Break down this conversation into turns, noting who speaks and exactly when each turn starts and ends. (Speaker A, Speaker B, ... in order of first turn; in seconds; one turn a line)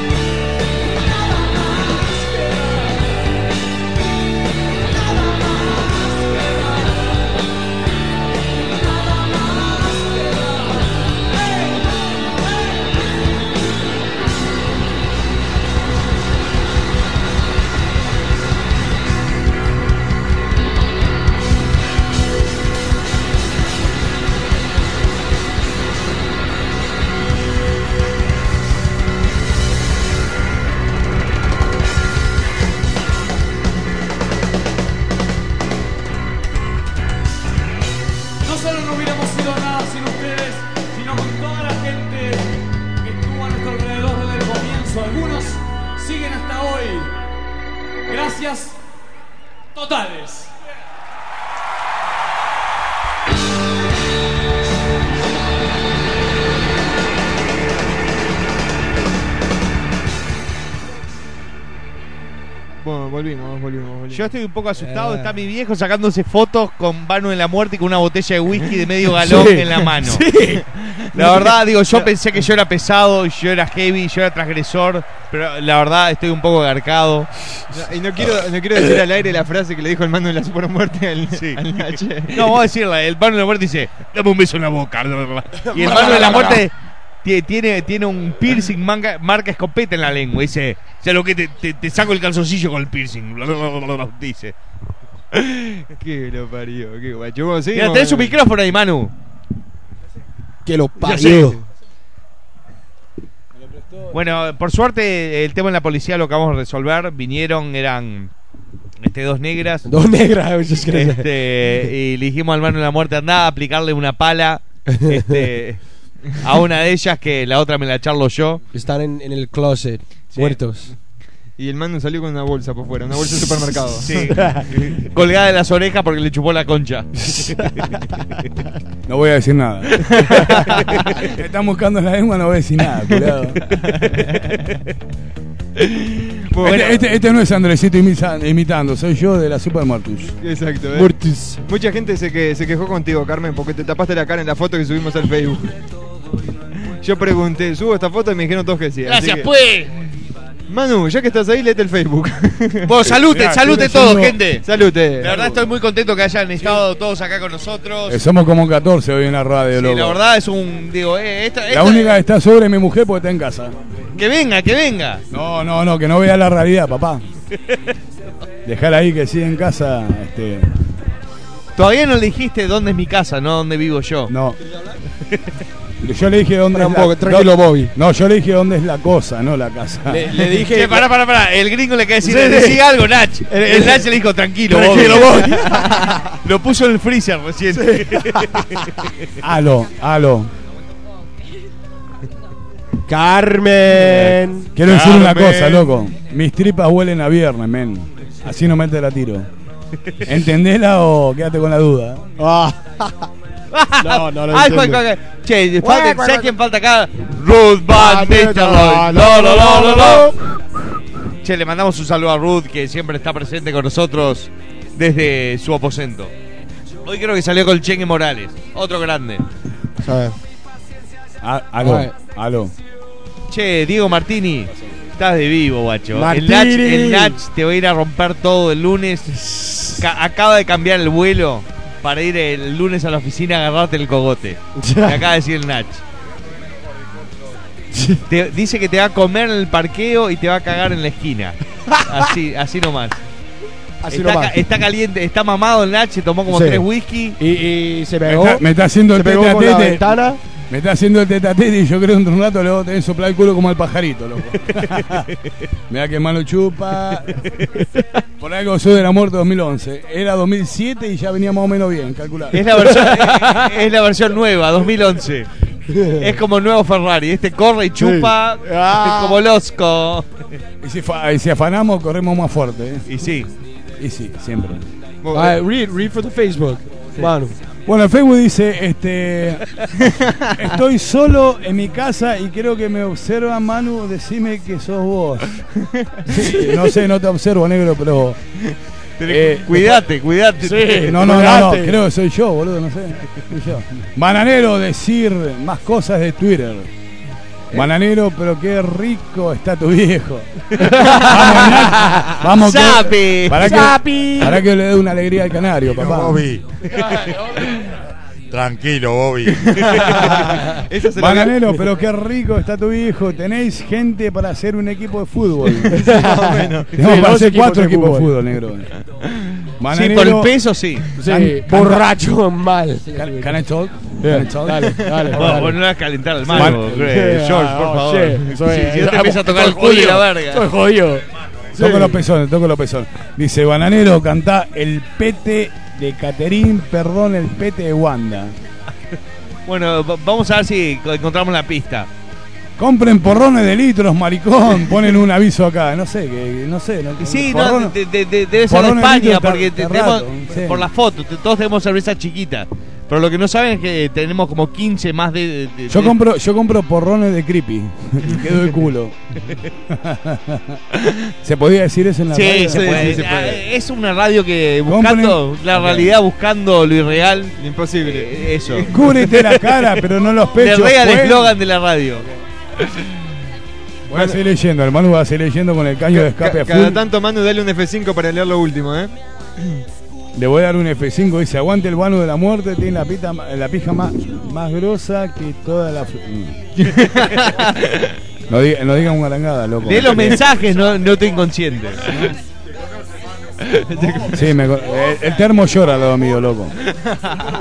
Speaker A: 1.0-3.1
Speaker A: 5.1-7.1
Speaker A: 8.7-11.8
Speaker A: 38.4-47.1
Speaker A: 48.1-48.8
Speaker A: 49.7-50.5
Speaker B: 62.8-64.3
Speaker C: 64.1-70.3
Speaker D: 64.8-65.3
Speaker D: 69.2-70.6
Speaker C: 70.9-77.3
Speaker B: 71.2-72.1
Speaker B: 77.7-82.6
Speaker C: 81.3-86.7
Speaker D: 85.6-86.7
Speaker C: 87.2-94.5
Speaker C: 95.3-95.8
Speaker B: 96.0-98.3
Speaker C: 97.7-99.1
Speaker D: 100.7-101.6
Speaker C: 101.1-101.5
Speaker E: 103.6-104.1
Speaker C: 104.1-108.3
Speaker C: 109.0-109.9
Speaker D: 109.8-111.3
Speaker C: 110.9-118.6
Speaker D: 114.9-115.5
Speaker D: 118.7-120.9
Speaker C: 120.3-120.6
Speaker B: 121.6-124.3
Speaker C: 124.0-127.7
Speaker D: 127.2-127.6
Speaker E: 129.1-130.5
Speaker C: 130.3-130.6
Speaker E: 131.2-133.6
Speaker C: 135.8-136.9
Speaker B: 136.5-137.0
Speaker E: 136.6-140.3
Speaker B: 140.4-141.1
Speaker D: 140.9-141.6
Speaker B: 141.6-145.7
Speaker B: 147.0-149.5
Speaker C: 149.0-149.9
Speaker B: 150.7-152.9
Speaker C: 152.9-154.6
Speaker E: 153.1-154.4
Speaker B: 154.6-155.6
Speaker C: 155.2-158.2
Speaker E: 158.1-160.2
Speaker C: 159.7-162.2
Speaker E: 161.7-163.8
Speaker C: 164.2-165.2
Speaker E: 165.3-167.2
Speaker E: 168.7-170.7
Speaker C: 171.8-174.3
Speaker E: 174.3-174.6
Speaker D: 174.7-175.0
Speaker E: 176.0-180.3
Speaker D: 176.7-177.9
Speaker D: 180.1-181.1
Speaker C: 180.6-188.9
Speaker D: 182.2-182.9
Speaker D: 183.5-184.1
Speaker D: 184.7-186.2
Speaker D: 187.7-188.9
Speaker E: 189.4-190.5
Speaker D: 193.1-194.7
Speaker E: 194.8-199.5
Speaker C: 194.9-195.8
Speaker E: 200.2-202.3
Speaker D: 202.4-203.3
Speaker C: 203.7-210.3
Speaker D: 204.0-205.0
Speaker D: 205.8-206.6
Speaker D: 207.9-210.4
Speaker C: 211.4-216.3
Speaker C: 217.1-219.4
Speaker D: 220.0-220.4
Speaker E: 221.4-222.7
Speaker D: 221.8-222.1
Speaker C: 223.5-236.0
Speaker D: 226.1-227.4
Speaker D: 229.4-229.9
Speaker D: 234.8-235.3
Speaker D: 237.9-238.2
Speaker C: 238.3-243.2
Speaker D: 241.9-242.2
Speaker D: 244.0-244.6
Speaker C: 244.1-247.4
Speaker D: 246.5-246.8
Speaker D: 247.4-250.4
Speaker E: 248.3-250.1
Speaker E: 250.7-255.3
Speaker E: 255.9-257.4
Speaker E: 258.4-262.7
Speaker C: 262.5-265.5
Speaker D: 263.0-263.6
Speaker D: 265.9-266.4
Speaker C: 266.2-270.3
Speaker D: 268.0-269.4
Speaker E: 270.8-273.1
Speaker C: 273.1-273.5
Speaker E: 274.0-274.9
Speaker B: 275.2-275.6
Speaker D: 275.3-277.6
Speaker E: 277.9-279.6
Speaker E: 280.6-285.6
Speaker D: 286.3-286.9
Speaker E: 286.4-288.4
Speaker C: 289.2-291.1
Speaker E: 289.3-289.9
Speaker D: 290.6-292.0
Speaker E: 291.0-296.9
Speaker E: 297.7-306.4
Speaker C: 300.9-301.6
Speaker C: 302.6-304.2
Speaker D: 303.7-304.4
Speaker F: 305.9-306.6
Speaker F: 308.5-309.7
Speaker B: 309.8-311.8
Speaker E: 311.2-316.1
Speaker D: 315.9-318.4
Speaker B: 315.9-317.0
Speaker E: 317.0-318.9
Speaker C: 319.4-321.1
Speaker E: 319.8-320.6
Speaker D: 321.2-323.6
Speaker E: 321.2-322.1
Speaker E: 323.1-325.6
Speaker D: 324.2-325.8
Speaker C: 325.3-330.7
Speaker D: 326.5-331.2
Speaker E: 326.5-326.8
Speaker D: 331.8-332.2
Speaker E: 331.8-338.6
Speaker C: 339.7-342.1
Speaker E: 342.8-348.0
Speaker C: 347.2-356.2
Speaker E: 348.7-350.9
Speaker E: 355.9-359.1
Speaker E: 359.9-360.8
Speaker E: 361.4-363.3
Speaker C: 362.3-370.0
Speaker B: 362.7-363.6
Speaker E: 364.9-366.1
Speaker B: 367.6-368.9
Speaker E: 368.9-371.6
Speaker C: 370.6-372.3
Speaker E: 374.1-377.0
Speaker B: 376.1-379.1
Speaker E: 380.4-386.6
Speaker C: 387.0-388.1
Speaker E: 388.5-390.5
Speaker C: 389.8-392.2
Speaker E: 392.1-392.3
Speaker C: 393.8-394.2
Speaker B: 393.9-394.5
Speaker E: 394.3-396.8